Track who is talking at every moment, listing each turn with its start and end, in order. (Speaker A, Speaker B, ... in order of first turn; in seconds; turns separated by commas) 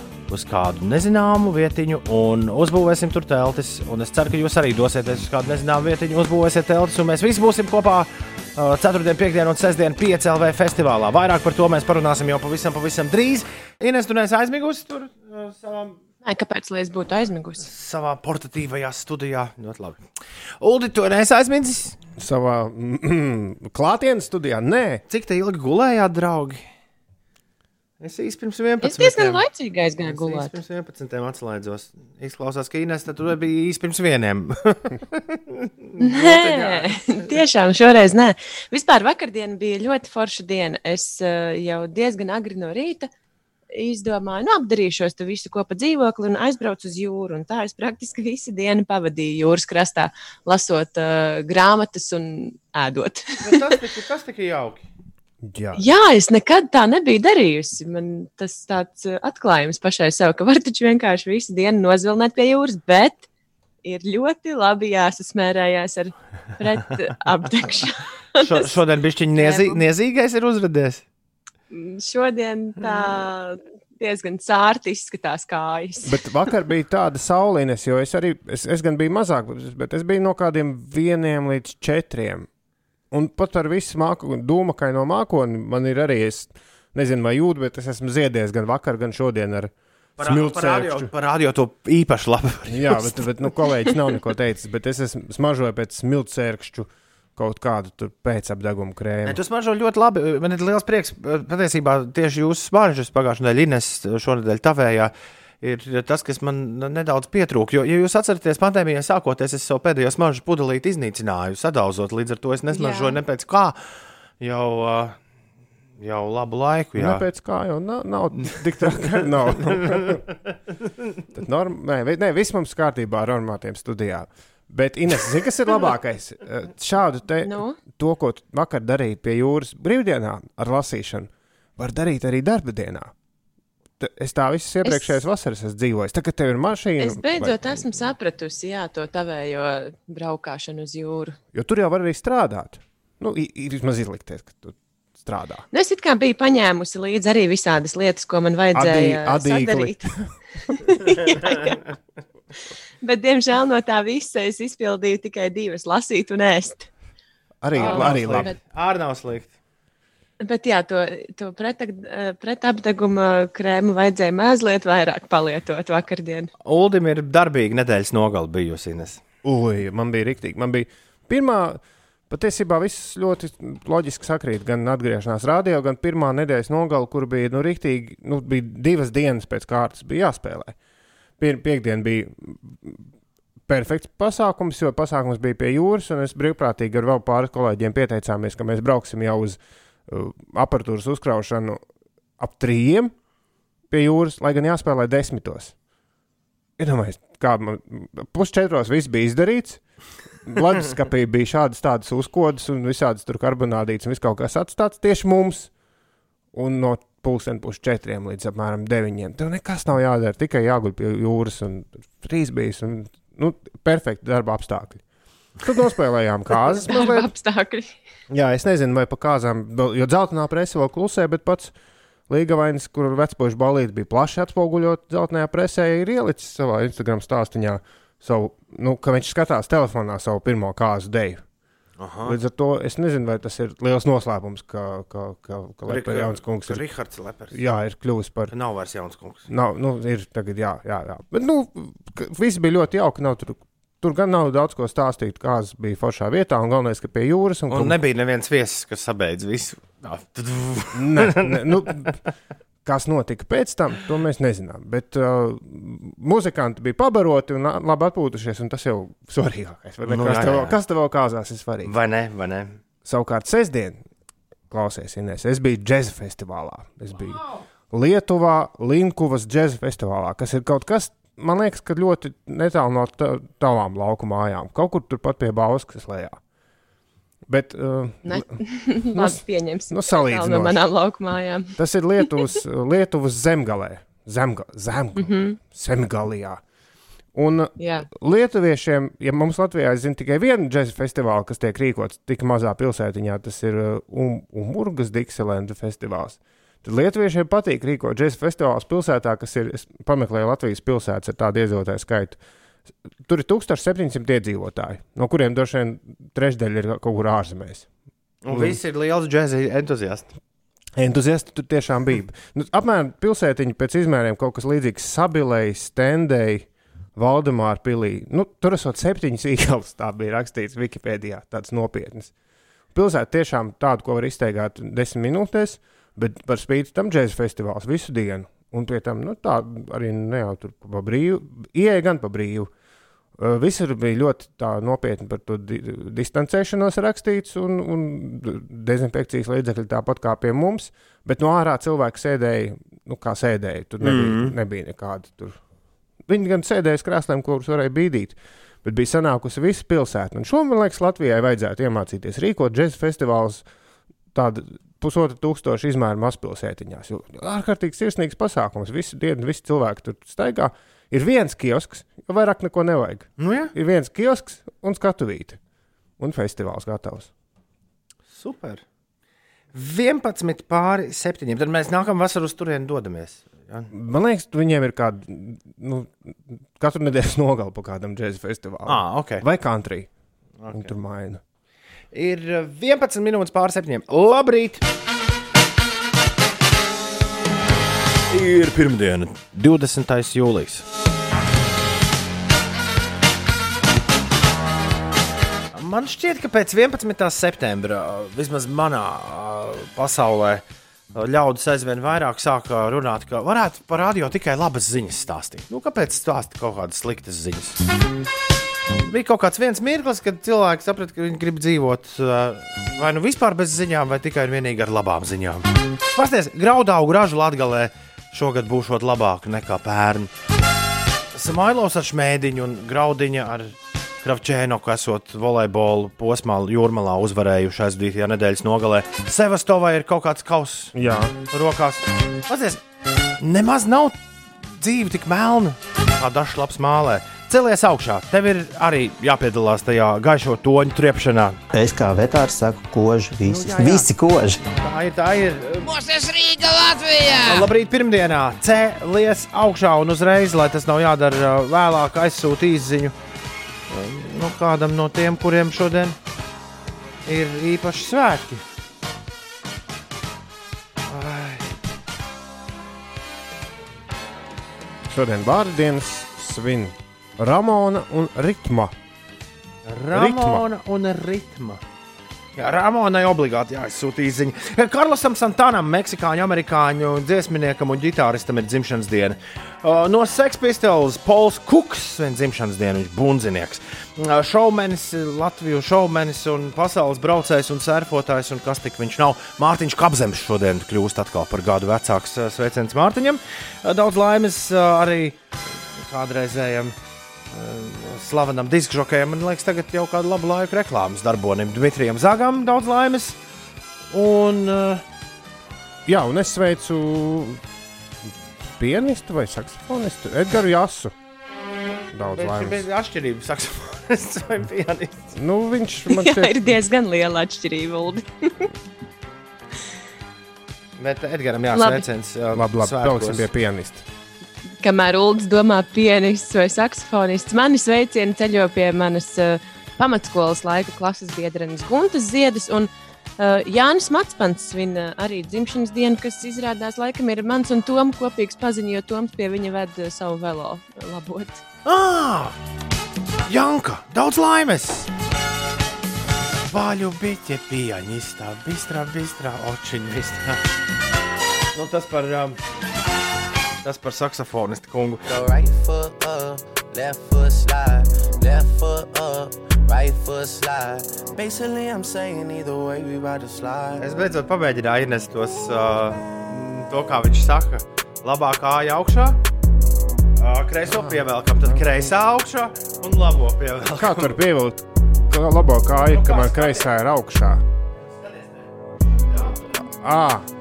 Speaker A: 0.3-16.0, Speaker B: 16.2-17.7, Speaker A: 17.6-20.0, Speaker A: 20.6-22.0, Speaker C: 22.2-25.0, Speaker A: 25.1-26.6, Speaker A: 28.0-29.4, Speaker B: 28.8-30.6, Speaker A: 30.1-37.3, Speaker B: 36.0-43.1, Speaker B: 43.7-53.5, Speaker A: 53.4-54.9, Speaker C: 55.4-55.8, Speaker B: 55.8-63.3, Speaker B: 63.8-68.7, Speaker A: 68.4-71.0, Speaker B: 69.4-69.8, Speaker B: 71.7-76.2, Speaker C: 76.1-82.5, Speaker C: 83.1-91.1, Speaker A: 90.2-93.3, Speaker C: 92.7-99.4, Speaker A: 99.3-113.8, Speaker B: 112.7-113.2, Speaker A: 114.4-115.2, Speaker A: 116.0-117.2, Speaker C: 117.0-120.2, Speaker A: 118.4-120.2, Speaker C: 121.3-133.1, Speaker B: 127.4-127.8, Speaker C: 134.0-138.1, Speaker B: 134.8-135.2, Speaker B: 137.0-141.4, Speaker C: 141.5-145.7, Speaker B: 145.7-150.0, Speaker C: 148.8-150.3, Speaker B: 150.7-151.8, Speaker B: 153.0-156.9, Speaker C: 157.6-158.5, Speaker A: 157.7-159.5, Speaker B: 157.8-158.6, Speaker B: 160.4-166.5, Speaker A: 166.6-169.2, Speaker C: 169.4-180.8, Speaker C: 181.4-183.0, Speaker C: 183.7-191.8, Speaker C: 192.4-193.1, Speaker C: 193.9-195.8, Speaker C: 196.8-199.8, Speaker C: 200.5-205.7, Speaker C: 206.5-215.0, Speaker C: 215.6-217.3, Speaker B: 216.6-218.0, Speaker C: 218.3-221.7, Speaker C: 222.3-231.4, Speaker A: 232.0-232.4, Speaker C: 232.3-236.8, Speaker A: 235.9-237.7, Speaker C: 237.5-238.5, Speaker A: 238.5-239.5, Speaker C: 239.5-248.0, Speaker A: 247.7-252.1, Speaker C: 250.9-252.2, Speaker C: 252.8-261.9, Speaker A: 260.1-260.8, Speaker A: 261.8-262.8, Speaker C: 263.1-264.0, Speaker C: 264.7-276.4, Speaker C: 277.5-278.5, Speaker B: 278.2-281.8, Speaker C: 279.1-279.4, Speaker C: 279.9-280.8, Speaker C: 281.8-286.6, Speaker B: 285.2-285.6, Speaker C: 287.3-302.4, Speaker B: 287.8-288.1, Speaker C: 303.2-307.9, Speaker A: 308.4-310.3, Speaker C: 308.5-308.8, Speaker C: 311.0-322.3, Speaker C: 322.9-332.7, Speaker C: 333.4-345.6, Speaker A: 344.0-344.6, Speaker C: 346.3-353.7, Speaker C: 354.3-365.6, Speaker A: 363.4-363.7, Speaker C: 366.2-367.3, Speaker A: 368.3-368.8, Speaker A: 369.7-373.9, Speaker C: 373.9-380.1, Speaker A: 378.9-379.4, Speaker A: 380.6-380.9, Speaker C: 380.7-381.4, Speaker A: 382.1-384.8, Speaker A: 388.3-390.9, Speaker A: 395.7-400.6, Speaker A: 401.1-407.8, Speaker A: 409.0-420.3, Speaker A: 421.3-430.9, Speaker C: 430.9-431.4, Speaker A: 431.5-432.8, Speaker A: 433.4-434.2, Speaker A: 434.7-441.6, Speaker D: 441.7-444.6, Speaker A: 443.5-444.1, Speaker A: 444.7-453.1, Speaker A: 453.9-456.2, Speaker A: 457.3-458.6, Speaker A: 461.1-461.7, Speaker C: 465.1-468.9, Speaker A: 469.9-471.8, Speaker C: 470.1-470.6, Speaker A: 472.6-495.4, Speaker A: 496.0-496.9, Speaker A: 497.5-503.4, Speaker A: 504.1-505.0, Speaker C: 506.1-507.6, Speaker C: 508.8-511.1, Speaker C: 512.1-512.8, Speaker A: 512.3-515.3, Speaker C: 515.4-516.6, Speaker B: 516.1-518.7, Speaker A: 521.0-523.5, Speaker B: 521.7-522.0, Speaker C: 522.5-524.0, Speaker B: 524.8-541.6, Speaker A: 541.9-542.6, Speaker A: 543.5-545.1, Speaker A: 546.7-550.6, Speaker A: 551.8-552.6, Speaker A: 553.8-555.3, Speaker E: 555.3-564.1, Speaker A: 564.0-569.4, Speaker A: 570.4-574.4, Speaker C: 571.0-572.1, Speaker C: 573.9-577.6, Speaker A: 576.1-576.9, Speaker A: 579.3-579.5, Speaker C: 579.9-580.5